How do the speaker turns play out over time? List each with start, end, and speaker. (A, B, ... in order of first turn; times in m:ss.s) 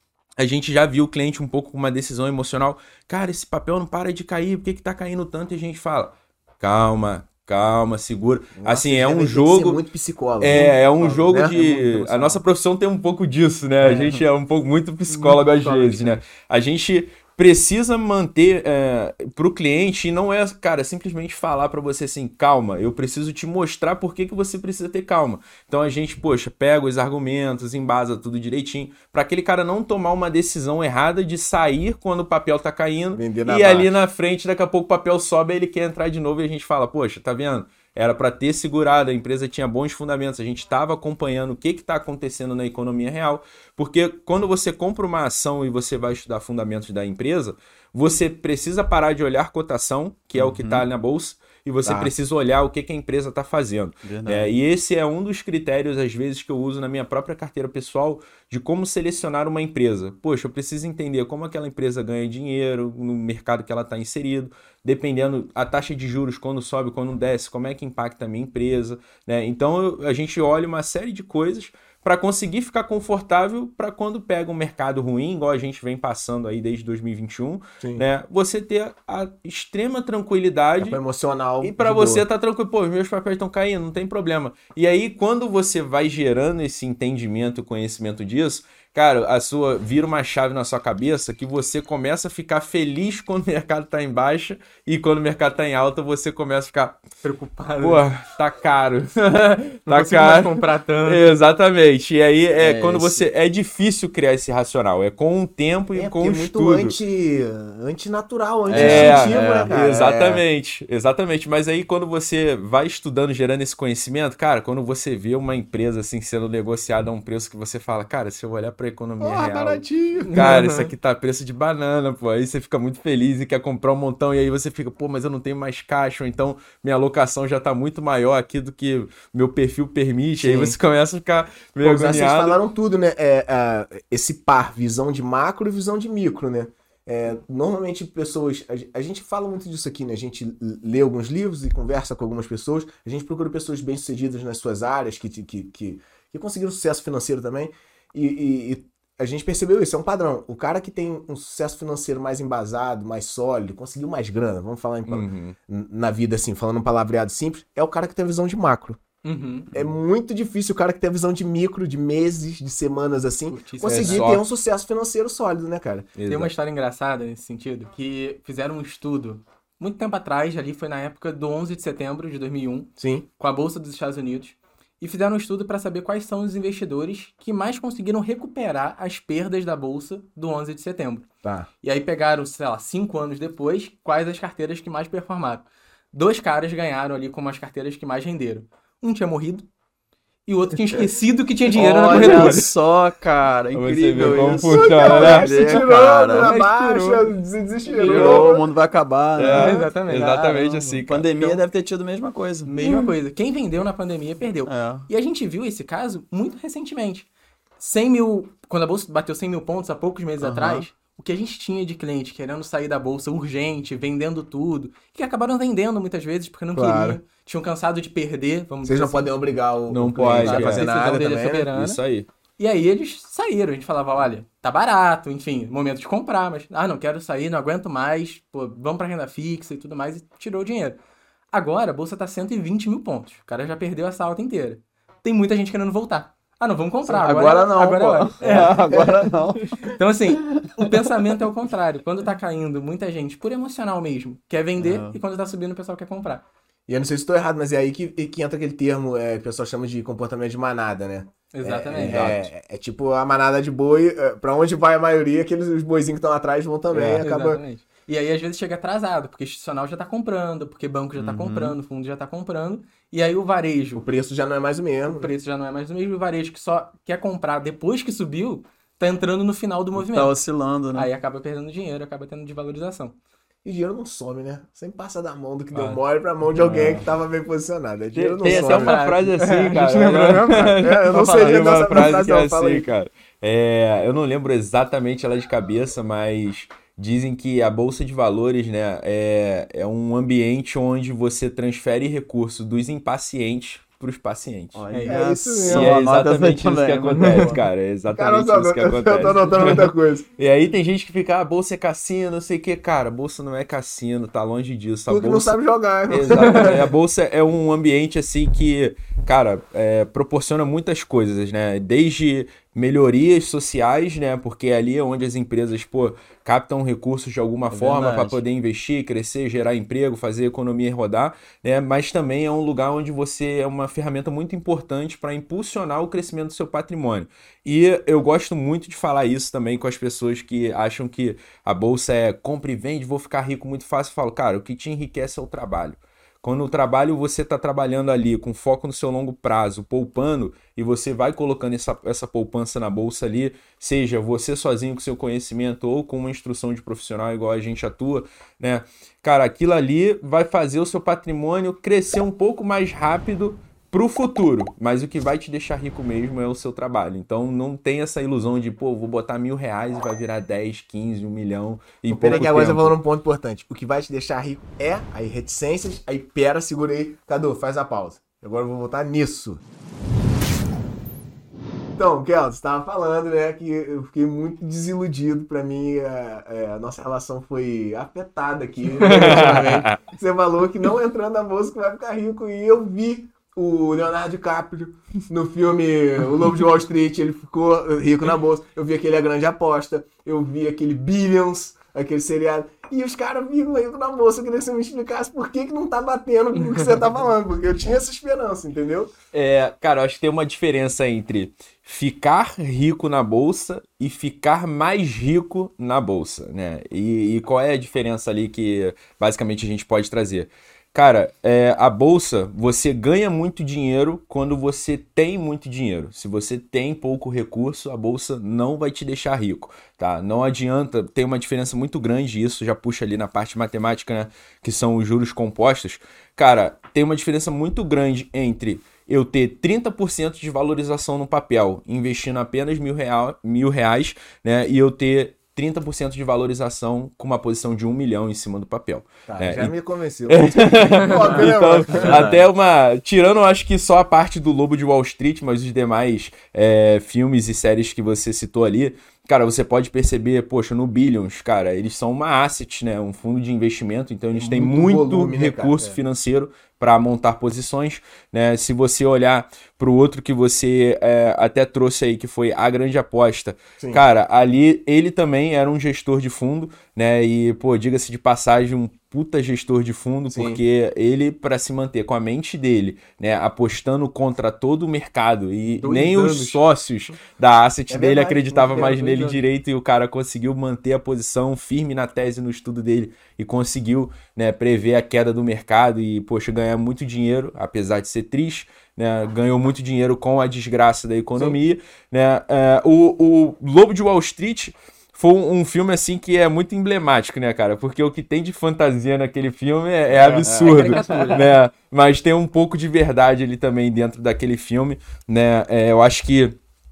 0:00.4-0:09.8 A
0:08.6-0:12.4 B
0:10.4-1:21.0 A
0:13.8-0:14.2 C
0:15.2-0:16.1 D
0:33.1-0:33.9 B
0:50.4-0:50.8 C
0:51.8-0:52.1 B
0:54.0-0:54.5 C
1:17.8-1:18.0 B
1:20.8-1:22.2 B
1:21.6-1:37.0 A
1:37.2-1:38.0 D
1:37.8-1:46.9 A
1:39.9-1:41.3 D
1:42.6-1:43.2 C
1:45.9-1:50.4 B
1:48.6-1:49.7 C
1:48.7-2:12.6 A
1:59.2-2:00.4 B
2:00.2-2:00.9 D
2:10.4-2:10.8 B
2:11.8-2:39.0 B
2:35.1-2:35.6 A
2:39.2-2:39.7 D
2:39.7-2:46.1 B
2:43.5-2:44.3 D
2:43.8-2:44.4 A
2:46.2-2:46.5 A
2:46.3-3:01.3 D
2:53.0-2:53.2 B
3:01.8-3:09.7 D
3:10.4-3:12.7 D
3:11.7-3:16.5 C
3:12.1-3:12.6 A
3:13.7-3:15.5 A
3:14.2-3:18.6 B
3:16.3-3:17.4 D
3:17.9-3:23.1 C
3:18.0-3:18.4 A
3:19.4-3:21.6 A
3:19.4-3:20.4 D
3:22.6-3:27.3 D
3:24.6-3:25.1 C
3:27.8-3:39.3 D
3:30.4-3:30.9 C
3:36.7-3:37.2 B
3:38.8-3:41.7 B
3:39.9-3:40.9 A
3:40.2-3:42.0 D
3:41.7-3:42.3 A
3:42.6-3:51.0 D
3:51.5-3:59.2 D
3:57.0-3:59.8 C
3:58.9-3:59.2 B
3:59.8-4:06.4 D
4:00.5-4:01.3 C
4:04.8-4:05.2 C
4:06.9-4:17.6 B
4:11.5-4:12.4 D
4:11.9-4:12.5 A
4:17.2-4:24.0 D
4:21.2-4:21.8 C
4:23.9-4:25.3 B
4:25.1-4:30.3 D
4:30.0-4:31.1 C
4:30.9-4:33.2 D
4:33.6-4:39.0 B
4:35.7-4:36.0 A
4:36.6-4:37.1 C
4:38.1-4:54.8 A
4:38.4-4:40.8 D
4:39.9-4:42.9 B
4:54.7-4:57.6 C
4:54.9-4:55.2 D
4:55.0-4:56.0 B
4:55.6-5:05.6 A
4:58.1-5:00.3 B
5:05.1-5:06.9 B
5:06.1-6:02.9 A
5:17.7-5:18.4 C
6:02.1-6:09.6 B
6:12.0-6:39.1 B
6:19.0-6:19.7 D
6:19.0-6:20.0 A
6:39.3-7:19.7 A
7:19.3-7:22.3 B
7:20.3-8:26.5 A
7:21.9-7:22.4 C
7:34.3-7:36.0 B
7:43.8-7:44.0 B
7:50.3-7:50.6 B
7:55.8-7:56.6 D
7:57.9-7:59.3 B
7:58.8-7:59.4 D
8:20.1-8:20.9 B
8:20.5-8:21.6 D
8:20.9-8:21.3 C